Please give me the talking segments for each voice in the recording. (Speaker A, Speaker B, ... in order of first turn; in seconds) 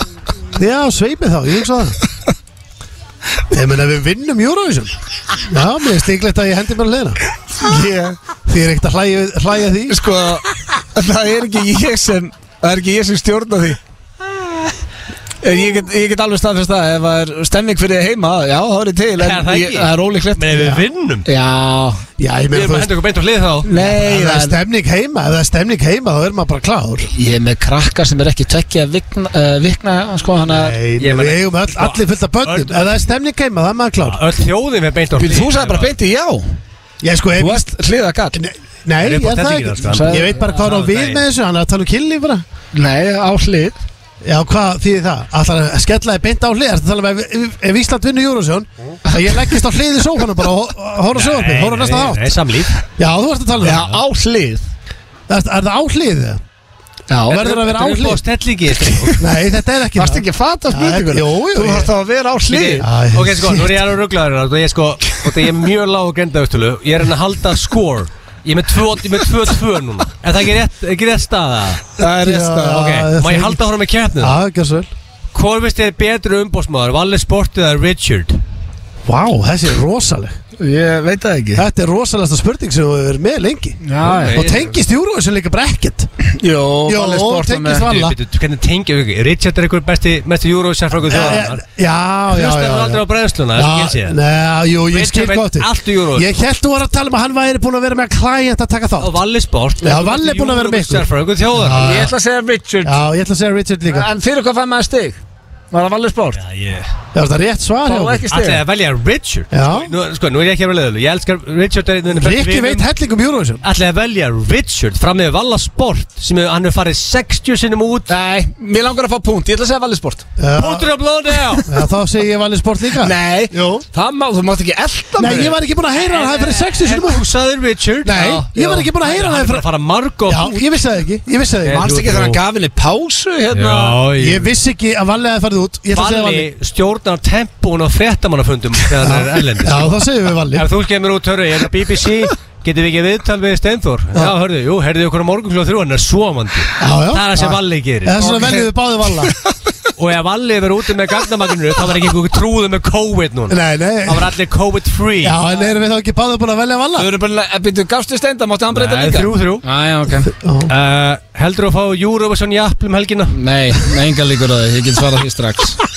Speaker A: 0.5-2.0, 3.5-7.2, 8.5-10.0, 22.2-22.9, 23.8-27.1, 30.5-34.2, 37.0-37.7, 38.3-42.4, 44.2-52.4, 53.0-53.9, 55.3-56.4, 57.3-58.2, 59.2-61.9, 62.8-63.8, 72.0-73.6, 74.2-74.9, 79.0-80.4, 81.5-86.1, 86.8-88.2, 91.1-99.2, 99.8-102.1, 102.8-104.1, 107.1-108.2, 109.5-109.9, 112.1-113.6, 120.4-120.9, 121.7-123.8, 125.2-127.2, 128.0-129.7, 130.2-131.8, 134.2-136.5, 139.0-140.7, 146.8-149.3, 153.5-154.3, 155.2-157.1, 160.4-160.7
Speaker B: 7.5-8.2, 9.9-13.8, 15.4-20.7, 21.2-22.0, 23.6-24.6, 27.1-30.8, 35.1-36.5, 37.4-38.4, 39.8-40.5, 42.7-43.8, 53.6-54.6, 57.1-57.4, 60.0-62.9, 72.0-73.0, 80.6-81.6, 83.8-84.5, 86.3-87.9, 91.1-91.4, 101.8-103.0, 103.9-105.2, 105.7-106.4, 107.8-108.6, 118.1-120.2, 123.0-125.6, 131.7-134.0, 148.2-148.7, 149.2-149.5, 157.0-160.3, 163.3-165.8
Speaker C: 19.2-21.2, 22.5-23.7, 31.0-32.9, 34.0-35.9, 39.0-41.2, 51.1-52.7, 53.7-53.9, 57.3-59.2, 62.5-71.9, 72.7-74.3, 75.3-78.4, 84.1-84.8, 87.8-91.6, 92.3-94.2, 94.9-96.3, 99.0-101.9, 106.3-106.9, 108.3-112.8, 113.6-118.1, 120.6-121.7, 125.9-130.8, 131.6-132.4, 133.5-134.5, 135.9-140.0, 140.5-148.3, 150.0-155.4, 158.7-159.6, 160.7-163.3